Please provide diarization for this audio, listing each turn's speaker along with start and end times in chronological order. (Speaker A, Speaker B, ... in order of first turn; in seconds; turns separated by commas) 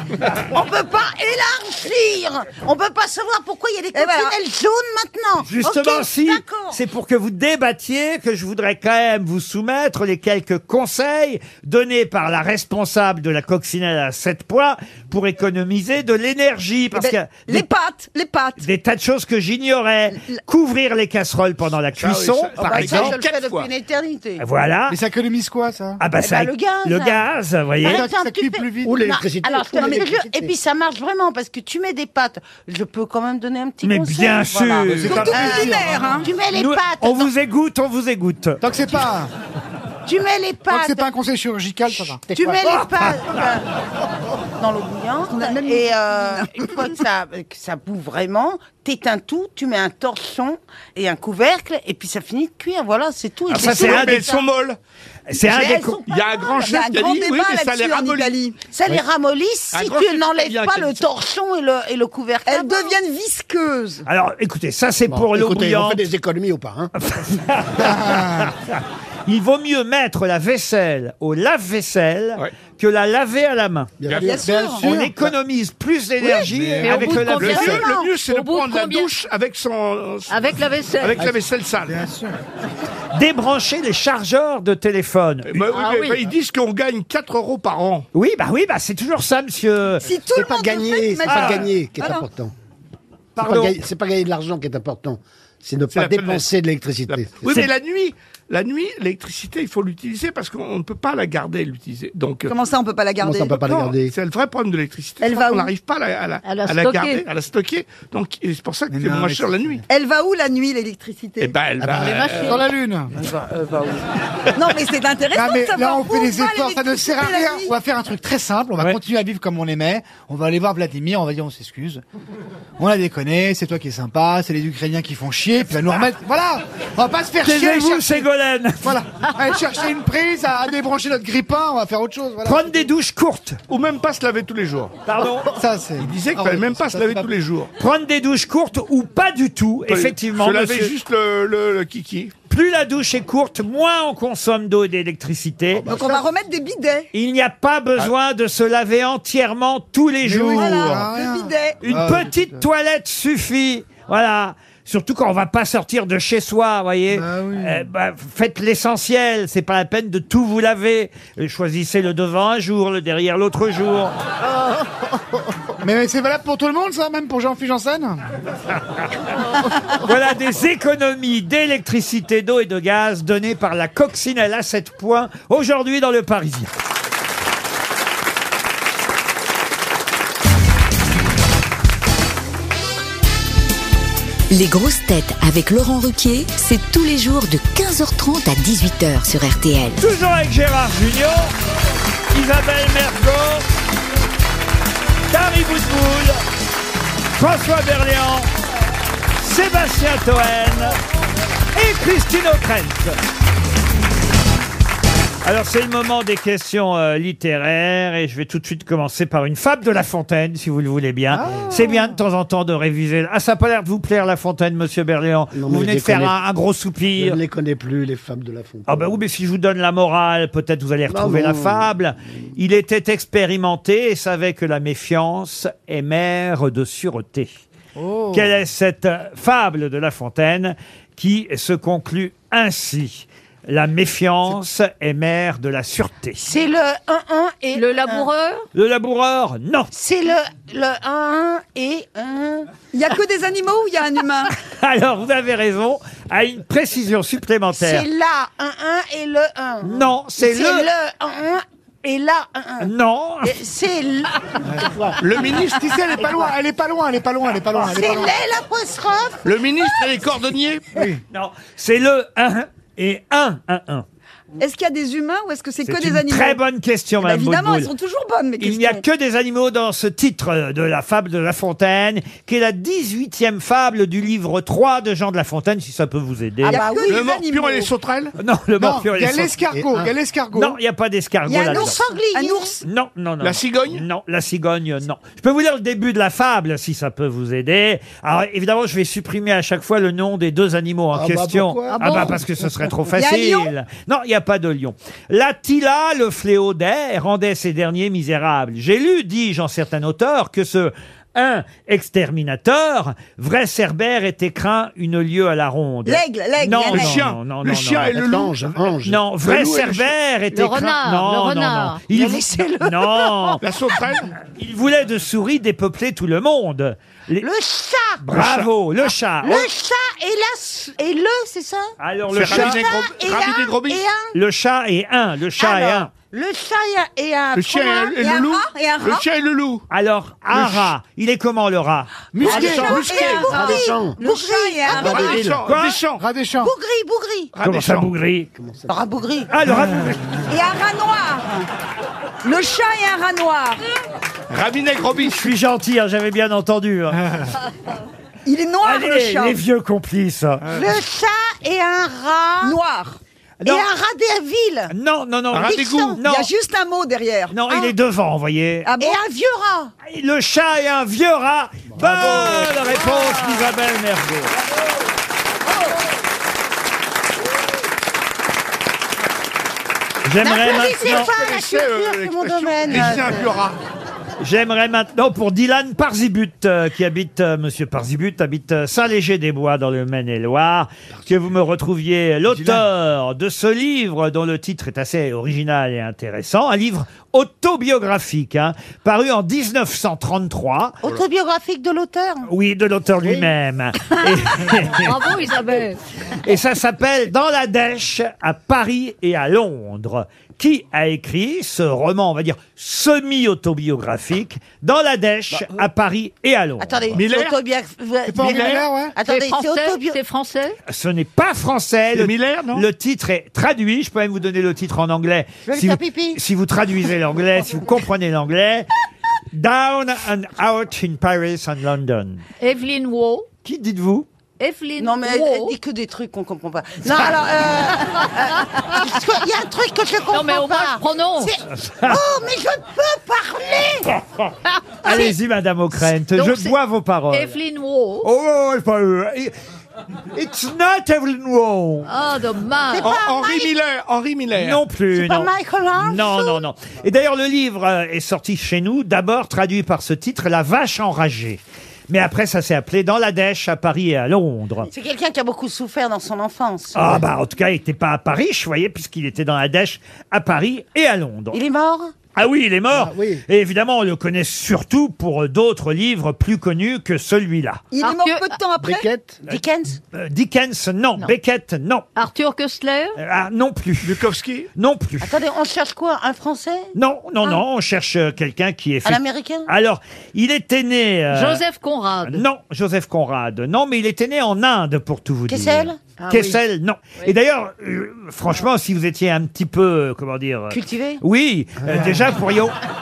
Speaker A: 0.5-6.8, Speaker B: 3.9-4.3, Speaker C: 5.4-17.7, Speaker B: 16.9-18.6, Speaker C: 18.6-23.1, Speaker D: 21.9-23.7, Speaker A: 22.6-24.4, Speaker C: 24.4-25.0, Speaker E: 24.9-26.0, Speaker C: 26.0-28.1, Speaker A: 26.2-27.3, Speaker E: 27.8-29.0, Speaker A: 27.8-37.3, Speaker F: 28.8-30.5, Speaker C: 33.8-35.4, Speaker E: 35.0-36.2, Speaker B: 35.1-36.3, Speaker C: 36.5-38.6, Speaker E: 38.6-39.3, Speaker A: 40.0-41.1, Speaker E: 40.7-42.4, Speaker A: 42.1-43.7, Speaker A: 44.6-54.4, Speaker E: 45.3-46.7, Speaker C: 53.5-54.2, Speaker D: 53.5-54.8, Speaker C: 55.3-56.0, Speaker B: 55.4-58.6, Speaker D: 56.0-58.4, Speaker A: 58.7-62.9, Speaker D: 59.7-61.0, Speaker B: 62.5-64.0, Speaker C: 64.0-66.0, Speaker F: 65.1-66.9, Speaker C: 67.0-73.9, Speaker E: 67.8-68.5, Speaker F: 74.0-74.4, Speaker D: 74.1-74.5, Speaker B: 74.2-74.9, Speaker E: 74.3-75.1, Speaker C: 74.8-77.7, Speaker E: 76.4-77.5, Speaker G: 76.8-79.1, Speaker D: 76.8-82.0, Speaker G: 80.3-81.3, Speaker E: 81.9-82.3, Speaker C: 83.1-85.7, Speaker D: 85.5-88.1, Speaker G: 85.7-86.2, Speaker C: 88.1-90.0, Speaker B: 90.0-92.2, Speaker F: 90.3-92.5, Speaker C: 91.3-91.6, Speaker C: 93.3-93.8, Speaker F: 93.4-97.7, Speaker D: 95.9-96.5, Speaker D: 97.1-102.5, Speaker B: 102.5-103.9, Speaker F: 103.2-104.1, Speaker D: 104.1-109.8, Speaker B: 105.2-105.7, Speaker G: 106.4-107.2, Speaker E: 108.9-109.8, Speaker B: 109.9-111.5, Speaker D: 111.4-112.6, Speaker F: 111.8-112.3, Speaker G: 111.9-112.7, Speaker E: 112.4-113.1, Speaker B: 114.5-117.7, Speaker E: 115.3-122.0, Speaker E: 122.8-128.3, Speaker C: 127.4-128.9, Speaker E: 128.8-132.8, Speaker C: 132.4-133.6, Speaker D: 133.7-134.9, Speaker C: 135.1-135.5, Speaker E: 135.5-137.3, Speaker D: 136.0-137.7, Speaker C: 137.8-140.9, Speaker D: 139.9-142.3, Speaker C: 142.5-145.9, Speaker B: 145.8-147.1, Speaker C: 147.1-151.1, Speaker E: 150.2-152.6, Speaker B: 150.5-151.8, Speaker C: 151.8-164.1, Speaker E: 157.1-157.8, Speaker E: 165.8-168.2, Speaker C: 170.0-176.7, Speaker H: 184.5-190.0, Speaker C: 190.0-191.5, Speaker C: 192.3-193.7, Speaker C: 195.3-196.4, Speaker C: 197.3-198.5, Speaker C: 199.4-201.0, Speaker C: 201.7-203.2, Speaker C: 205.4-217.4, Speaker E: 211.3-212.1, Speaker F: 215.5-216.4, Speaker F: 217.2-219.2, Speaker C: 218.8-227.5, Speaker F: 221.1-221.9, Speaker E: 228.0-228.5, Speaker C: 228.3-236.4, Speaker A: 236.4-238.3, Speaker G: 237.7-238.6, Speaker C: 238.7-239.9, Speaker A: 239.9-242.7, Speaker B: 242.9-244.5, Speaker C: 244.7-248.0, Speaker A: 247.7-252.9, Speaker C: 249.8-250.9, Speaker C: 252.8-253.6, Speaker A: 253.4-254.4, Speaker E: 254.7-254.9, Speaker D: 255.2-256.0, Speaker E: 255.6-258.4, Speaker A: 257.8-259.8, Speaker D: 259.4-261.0, Speaker E: 260.9-261.2, Speaker C: 261.3-264.0, Speaker B: 264.6-266.6, Speaker C: 265.8-267.9, Speaker B: 267.2-269.0, Speaker C: 268.6-276.8, Speaker B: 276.6-277.9, Speaker A: 276.6-277.2, Speaker D: 277.1-278.3, Speaker C: 278.4-279.6, Speaker E: 278.8-280.8, Speaker F: 279.7-280.1, Speaker C: 280.5-282.0, Speaker B: 281.5-282.8, Speaker A: 281.5-282.8, Speaker C: 282.8-308.2, Speaker D: 283.4-284.0, Speaker F: 291.1-292.4, Speaker B: 293.1-293.7, Speaker B: 306.1-307.2, Speaker D: 306.8-308.7, Speaker F: 308.1-309.2, Speaker C: 309.0-313.6, Speaker D: 309.4-310.1, Speaker G: 310.5-312.0, Speaker A: 312.2-313.6, Speaker D: 313.6-314.3, Speaker C: 314.4-317.5, Speaker A: 317.4-318.2, Speaker C: 318.2-319.7, Speaker D: 318.3-318.7, Speaker A: 319.4-324.4, Speaker C: 322.0-322.8, Speaker D: 322.3-324.0, Speaker C: 324.3-326.1, Speaker A: 325.6-328.3, Speaker D: 327.5-329.9, Speaker B: 328.2-329.2, Speaker C: 329.9-333.1, Speaker E: 330.6-330.9, Speaker E: 332.3-333.4, Speaker A: 332.4-335.5, Speaker B: 332.4-335.4, Speaker D: 332.8-333.4, Speaker F: 333.4-334.2, Speaker D: 334.9-336.2, Speaker F: 335.0-335.6, Speaker C: 335.6-336.0, Speaker E: 336.2-336.7, Speaker A: 336.6-337.5, Speaker D: 337.5-338.1, Speaker C: 337.6-338.5, Speaker F: 338.6-339.0, Speaker A: 338.9-339.5, Speaker C: 339.5-340.4, Speaker E: 339.8-340.1, Speaker B: 340.5-341.7, Speaker B: 342.4-343.8, Speaker D: 344.5-345.4, Speaker C: 345.2-347.2, Speaker B: 348.4-349.6, Speaker C: 348.8-350.6, Speaker A: 350.6-352.8, Speaker B: 352.6-353.2, Speaker C: 353.6-353.9, Speaker A: 353.6-354.9, Speaker C: 354.9-356.5, Speaker D: 355.5-356.2, Speaker A: 355.6-356.2, Speaker B: 356.2-357.8, Speaker C: 357.5-358.9, Speaker B: 358.9-359.2, Speaker A: 359.0-359.9, Speaker C: 360.0-364.5, Speaker A: 362.3-363.6, Speaker C: 370.2-371.3, Speaker A: 370.4-373.5, Speaker D: 370.8-373.8, Speaker C: 374.4-391.0, Speaker E: 382.5-382.8, Speaker A: 391.0-392.5, Speaker C: 392.4-395.3, Speaker G: 394.8-396.0, Speaker C: 396.4-407.2, Speaker A: 406.8-410.2, Speaker D: 407.1-407.6, Speaker E: 408.2-409.2, Speaker D: 408.4-408.8, Speaker G: 409.2-410.8, Speaker C: 410.9-418.9, Speaker D: 412.1-412.9, Speaker A: 415.6-416.4, Speaker C: 419.5-422.4, Speaker G: 422.6-423.5, Speaker C: 423.6-424.3, Speaker G: 424.6-425.7, Speaker A: 425.0-434.1, Speaker G: 428.1-429.1, Speaker G: 430.3-431.6, Speaker C: 431.8-432.2, Speaker C: 434.1-434.4, Speaker C: 435.0-437.6, Speaker G: 436.1-436.8, Speaker G: 437.3-438.3, Speaker C: 438.2-439.5, Speaker C: 440.3-442.1, Speaker G: 442.0-443.2, Speaker A: 442.9-443.7, Speaker D: 443.0-444.8, Speaker C: 444.5-454.9, Speaker A: 445.1-446.6, Speaker A: 454.9-457.2, Speaker C: 456.9-461.6, Speaker A: 461.5-462.1, Speaker C: 462.3-467.9, Speaker F: 462.9-463.4, Speaker B: 467.9-469.1, Speaker G: 468.0-468.6, Speaker F: 468.8-469.4, Speaker A: 469.4-470.0, Speaker C: 470.1-472.1, Speaker G: 472.1-473.2, Speaker C: 473.1-474.2, Speaker D: 474.0-474.7, Speaker C: 474.7-475.4, Speaker A: 475.2-476.9, Speaker C: 476.9-481.6, Speaker A: 479.0-479.7, Speaker G: 481.3-482.4, Speaker C: 482.2-492.8, Speaker A: 485.5-486.6, Speaker A: 490.7-491.2